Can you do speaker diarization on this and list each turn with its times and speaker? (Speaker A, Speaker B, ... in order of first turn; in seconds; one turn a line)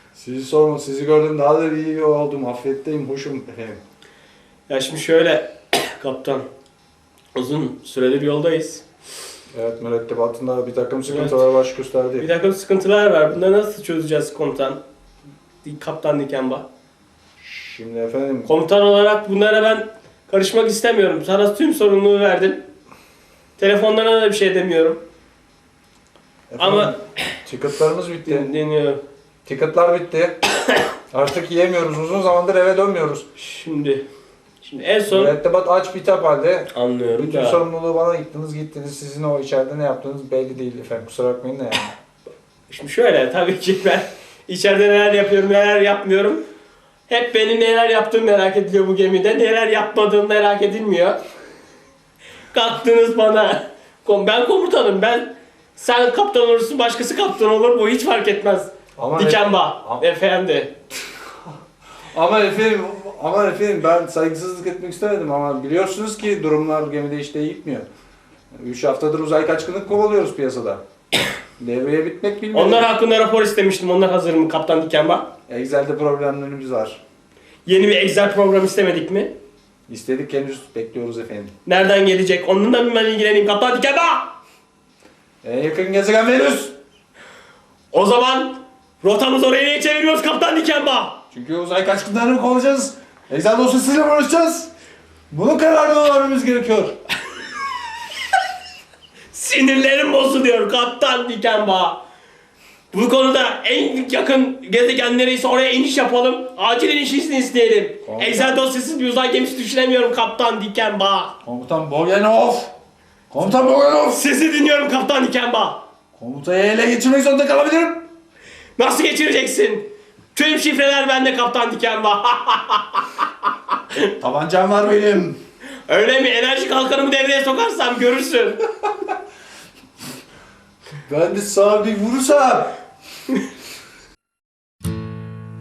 Speaker A: 0.1-3.8
Speaker B: 4.7-6.5
Speaker B: 7.3-8.8
Speaker A: 9.5-12.3
Speaker B: 11.1-11.4
Speaker B: 12.2-14.8
Speaker B: 15.6-16.6
Speaker A: 17.4-18.5
Speaker B: 18.5-22.6
Speaker B: 23.6-25.0
Speaker A: 26.5-28.5
Speaker B: 26.6-26.9
Speaker B: 28.2-29.0
Speaker A: 29.4-30.4
Speaker A: 31.1-33.2
Speaker B: 33.4-34.0
Speaker B: 34.6-35.3
Speaker A: 35.1-41.9
Speaker B: 36.7-37.6
Speaker B: 42.7-46.4
Speaker B: 47.1-51.2
Speaker B: 52.5-60.7
Speaker A: 59.0-60.0
Speaker A: 62.1-67.9
Speaker A: 68.5-70.8
Speaker A: 71.6-72.9
Speaker B: 72.5-75.2
Speaker A: 75.5-77.0
Speaker B: 77.7-79.3
Speaker A: 79.9-81.5
Speaker B: 81.7-84.3
Speaker A: 85.4-86.7
Speaker B: 87.9-91.2
Speaker A: 91.3-94.7
Speaker A: 95.3-97.0
Speaker B: 99.3-102.0
Speaker B: 102.9-111.3
Speaker A: 108.0-108.6
Speaker A: 111.4-112.7
Speaker A: 113.3-114.2
Speaker B: 114.1-115.8
Speaker A: 116.1-118.0
Speaker B: 118.8-123.2
Speaker A: 124.2-125.4
Speaker B: 125.9-128.6
Speaker A: 131.0-132.8